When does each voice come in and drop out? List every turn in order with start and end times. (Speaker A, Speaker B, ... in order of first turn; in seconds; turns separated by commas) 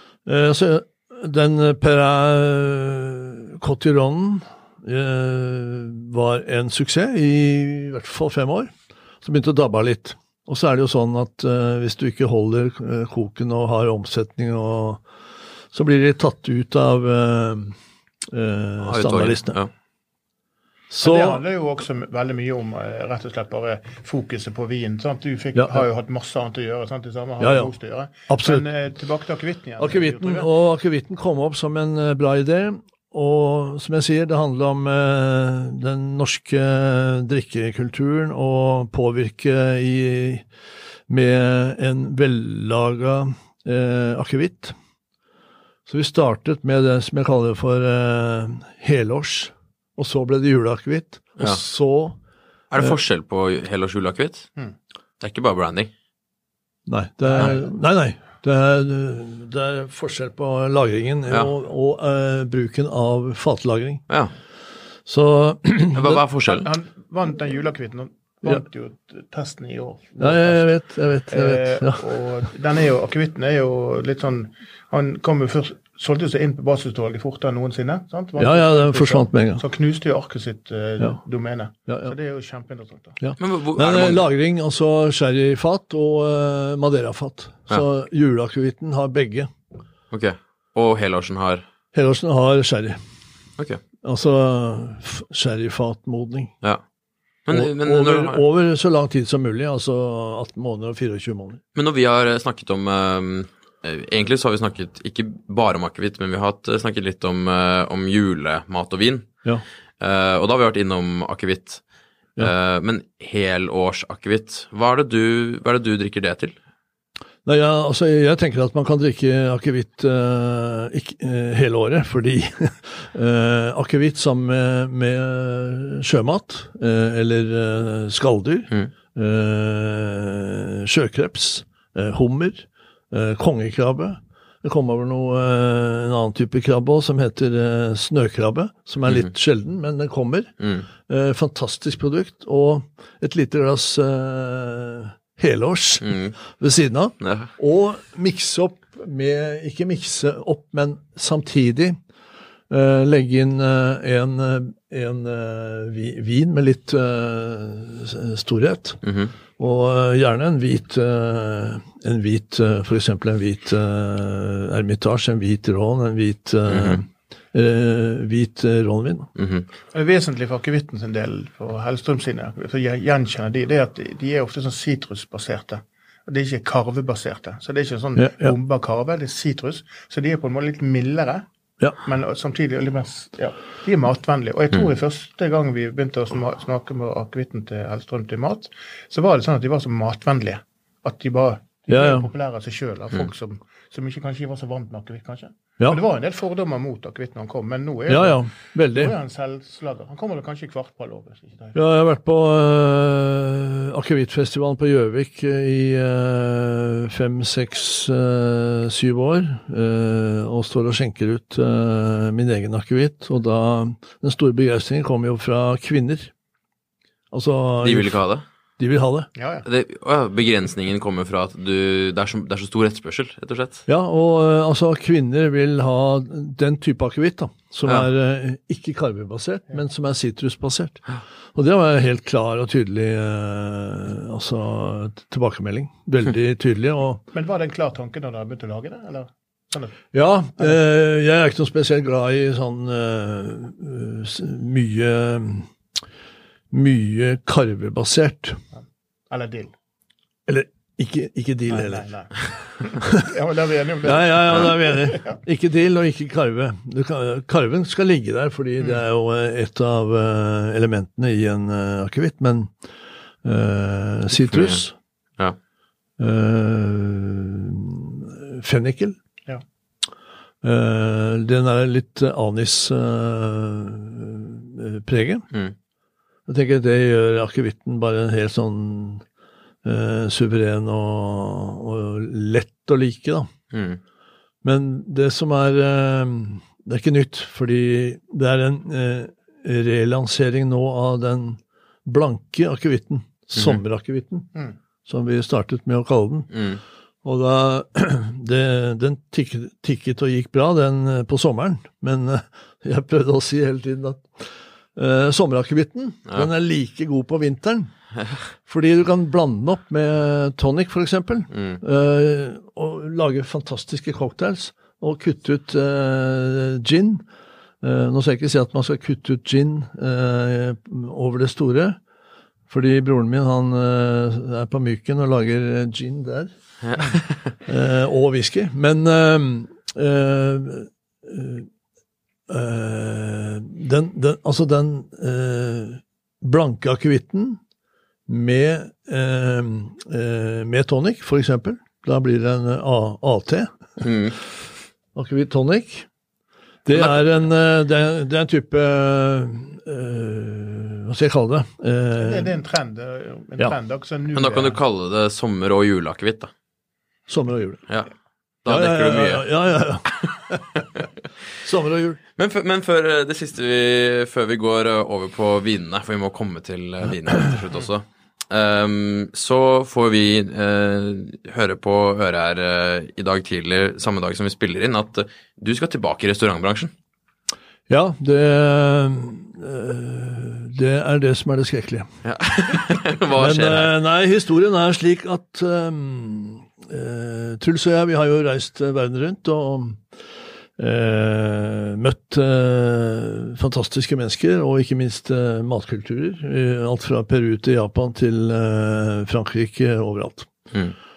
Speaker A: 0.3-15.0, Speaker A: 15.7-17.8, Speaker A: 18.3-19.6, Speaker B: 18.8-19.7, Speaker A: 20.9-21.4, Speaker C: 21.0-30.5, Speaker A: 25.5-25.8, Speaker A: 27.4-27.7, Speaker A: 28.3-28.7, Speaker A: 29.8-40.5, Speaker A: 41.1-44.8, Speaker A: 45.9-52.2, Speaker B: 52.7-54.5, Speaker B: 55.2-55.9, Speaker A: 56.9-64.0, Speaker C: 57.3-57.6, Speaker A: 65.1-66.2, Speaker B: 65.9-66.7, Speaker C: 66.5-70.6, Speaker A: 70.2-72.1, Speaker C: 71.3-83.2, Speaker A: 78.4-79.6, Speaker A: 81.9-82.1, Speaker A: 83.2-89.5, Speaker B: 83.4-84.2, Speaker B: 90.1-91.6, Speaker A: 91.9-93.0, Speaker A: 94.0-96.5, Speaker B: 97.5-98.4, Speaker A: 97.5-101.6, Speaker B: 101.8-109.3, Speaker B: 110.0-111.8, Speaker B: 112.4-116.6, Speaker A: 117.5-140.5, Speaker B: 140.6-140.9, Speaker A: 141.1-152.0, Speaker B: 146.0-146.3, Speaker B: 147.2-147.5, Speaker A: 152.7-159.0, Speaker B: 159.0-159.3, Speaker A: 159.6-169.3, Speaker B: 166.7-167.0, Speaker B: 169.4-169.7, Speaker C: 169.9-181.5, Speaker A: 178.2-178.6, Speaker C: 182.0-201.8, Speaker A: 191.9-192.3, Speaker A: 198.1-199.1, Speaker A: 201.8-216.3, Speaker A: 217.3-218.2, Speaker B: 217.8-218.4, Speaker A: 218.8-219.3, Speaker C: 219.4-219.7, Speaker B: 219.6-223.8, Speaker A: 223.9-231.0, Speaker A: 231.6-237.2, Speaker C: 237.3-240.0, Speaker A: 240.1-245.7, Speaker A: 246.7-248.6, Speaker C: 249.3-249.7, Speaker A: 250.5-252.1, Speaker C: 251.7-255.3, Speaker A: 254.0-262.7, Speaker A: 263.4-264.9, Speaker B: 264.4-264.8, Speaker A: 266.2-269.2, Speaker A: 270.6-275.4, Speaker A: 276.5-279.2, Speaker A: 279.8-283.5, Speaker B: 283.7-284.0, Speaker A: 284.6-294.5, Speaker A: 295.1-296.5, Speaker B: 296.5-296.8, Speaker A: 297.2-307.9, Speaker A: 308.7-317.2, Speaker B: 311.5-311.8, Speaker A: 317.8-322.0, Speaker A: 322.7-326.5, Speaker B: 326.9-327.5, Speaker A: 327.7-331.7, Speaker A: 332.5-337.6, Speaker A: 338.3-343.7, Speaker B: 344.0-344.4, Speaker A: 345.1-346.1, Speaker A: 346.9-352.5, Speaker B: 346.9-347.2, Speaker C: 352.2-354.8, Speaker B: 354.3-356.5, Speaker A: 357.3-357.8, Speaker B: 358.6-359.5, Speaker A: 358.7-360.6, Speaker B: 360.8-361.0, Speaker A: 361.6-362.2, Speaker B: 362.4-376.9, Speaker A: 377.9-382.1, Speaker B: 382.2-383.9, Speaker A: 383.4-390.0, Speaker A: 390.8-400.5